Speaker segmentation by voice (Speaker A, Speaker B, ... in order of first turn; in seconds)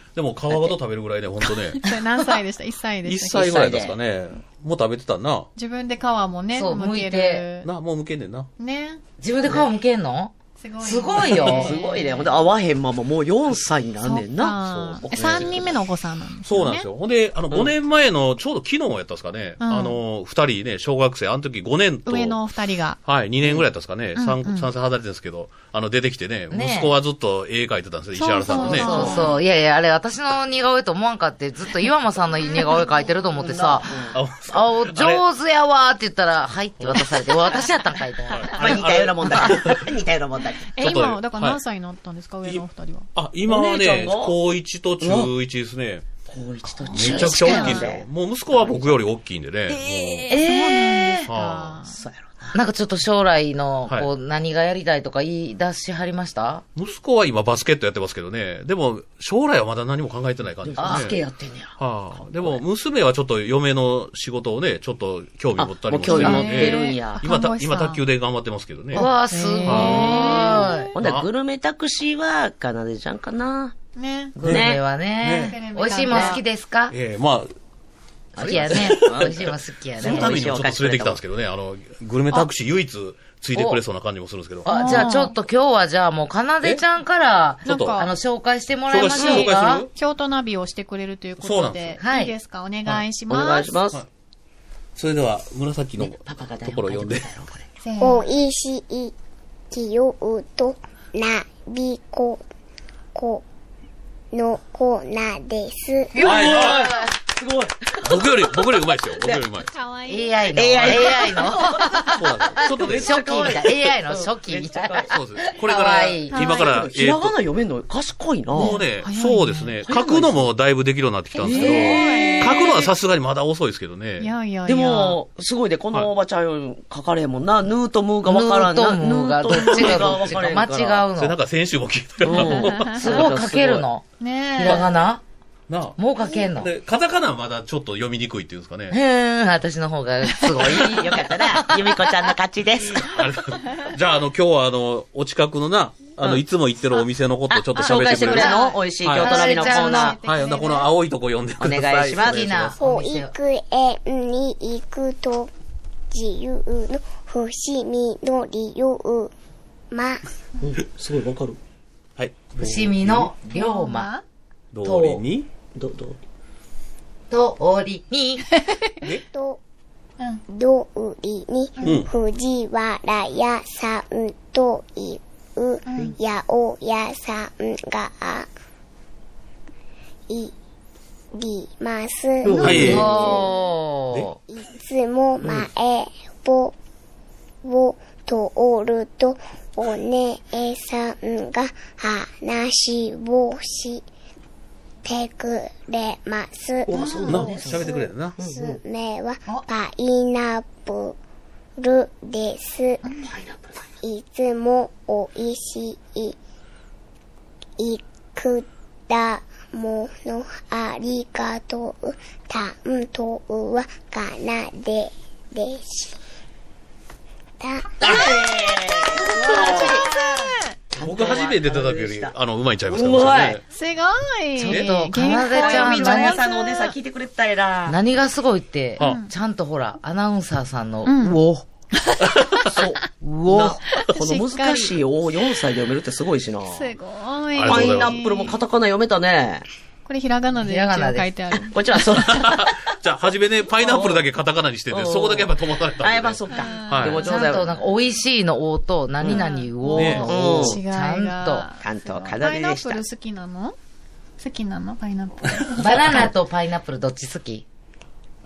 Speaker A: 0.1-1.8, 3.0-5.5, 7.6-8.5, 14.6-15.7, 16.4-22.4, 23.0-29.3, 34.1-35.2, 36.8-37.1, 38.3-39.9, 40.8-41.6, 42.4-46.1, 46.9-50.4, 51.2-51.8, 56.8-61.2, 61.8-69.1, 69.7-71.3, 74.4-75.6, 76.9-77.5, 78.4-85.0, 87.7-88.0, 88.9-89.9, 91.4-92.0, 95.0-97.3, 106.2-107.0, 108.0-109.7, 112.0-113.2, 115.1-117.3, 118.5-124.3, 129.6-130.4, 131.2-133.3, 135.7-136.0, 136.6-139.0, 142.9-149.4, 150.1-152.8, 162.2-163.3, 164.7-165.5, 171.8-172.1, 182.5-183.1, 197.3-198.4, 218.0-218.4, 221.0-223.6, 232.2-232.9, 237.5-238.3, 242.1-247.3, 249.9-250.6
Speaker B: 0.5-0.8, 3.3-4.0, 11.2-15.7, 33.4-34.2, 38.6-40.8, 43.5-44.4, 45.0-45.3, 46.3-49.0, 49.7-50.9, 51.9-52.5, 60.6-62.6, 65.6-67.2, 69.7-73.8, 74.4-74.8, 78.4-79.5, 80.0-81.2, 89.2-89.5, 93.3-94.0, 96.0-97.7, 106.2-109.4, 110.5-115.5, 116.3-118.8, 119.8-120.5, 121.4-122.6, 124.7-131.1, 132.2-133.9, 140.7-143.1, 147.5-150.2, 151.6-152.5, 160.6-161.6, 165.8-166.2, 182.4-183.1, 196.9-198.8, 203.3-203.6, 218.0-220.1, 220.9-222.3, 222.9-223.6, 225.3-228.0, 232.7-236.9, 237.7-239.7, 241.7-242.9, 243.8-244.3, 244.9-247.7, 250.2-250.8, 251.8-253.0
Speaker C: 1.5-3.6, 5.6-7.7, 8.6-9.0, 10.6-12.4, 14.0-16.9, 19.6-20.0, 22.1-23.0, 24.1-24.7, 28.1-29.4, 40.7-43.1, 46.9-47.9, 50.3-52.0, 66.1-68.0, 69.0-70.9, 74.0-74.4, 75.4-76.4, 84.7-85.3, 87.7-88.1, 89.2-93.8, 97.8-98.3, 109.7-110.6, 116.3-116.7, 118.6-119.7, 121.6-122.9, 124.2-125.2, 132.4-133.0, 134.2-134.8, 148.2-150.9, 163.5-164.2, 175.9-176.2, 197.0-197.4, 203.1-203.3, 219.6-220.7, 223.7-226.9, 229.0-229.3, 231.1-231.4, 232.1-232.6, 233.9-235.0, 236.7-238.6, 240.1-242.5, 246.5-247.5, 249.3-253.8, 254.4-256.0
Speaker D: 6.5-7.5, 9.2-11.8, 26.5-26.9, 28.6-38.8, 50.3-51.2, 52.5-56.6, 60.8-61.1, 66.2-66.5, 68.9-70.9, 74.4-77.0, 78.4-80.4, 83.5-83.8, 84.7-89.9, 92.0-92.3, 106.4-107.1, 110.1-116.5, 121.5-122.0, 128.2-131.4, 132.9-135.2, 136.0-136.7, 138.9-142.1, 149.2-150.2, 152.2-153.3, 162.6-164.1, 164.8-165.2, 167.3-168.5, 182.7-184.4, 224.6-226.4, 227.9-231.7, 233.2-233.8, 240.6-241.3, 247.2-251.7, 255.8-257.6
Speaker E: 98.0-99.1, 99.7-102.4, 103.2-103.5, 104.3-106.2, 152.8-155.5, 156.1-159.3, 159.9-160.2, 169.3-169.6, 170.5-178.5, 180.3-180.5, 181.3-183.6, 184.5-186.8, 187.6-194.1, 195.1-201.2, 201.8-203.0, 204.0-206.4, 207.8-216.2, 217.6-218.1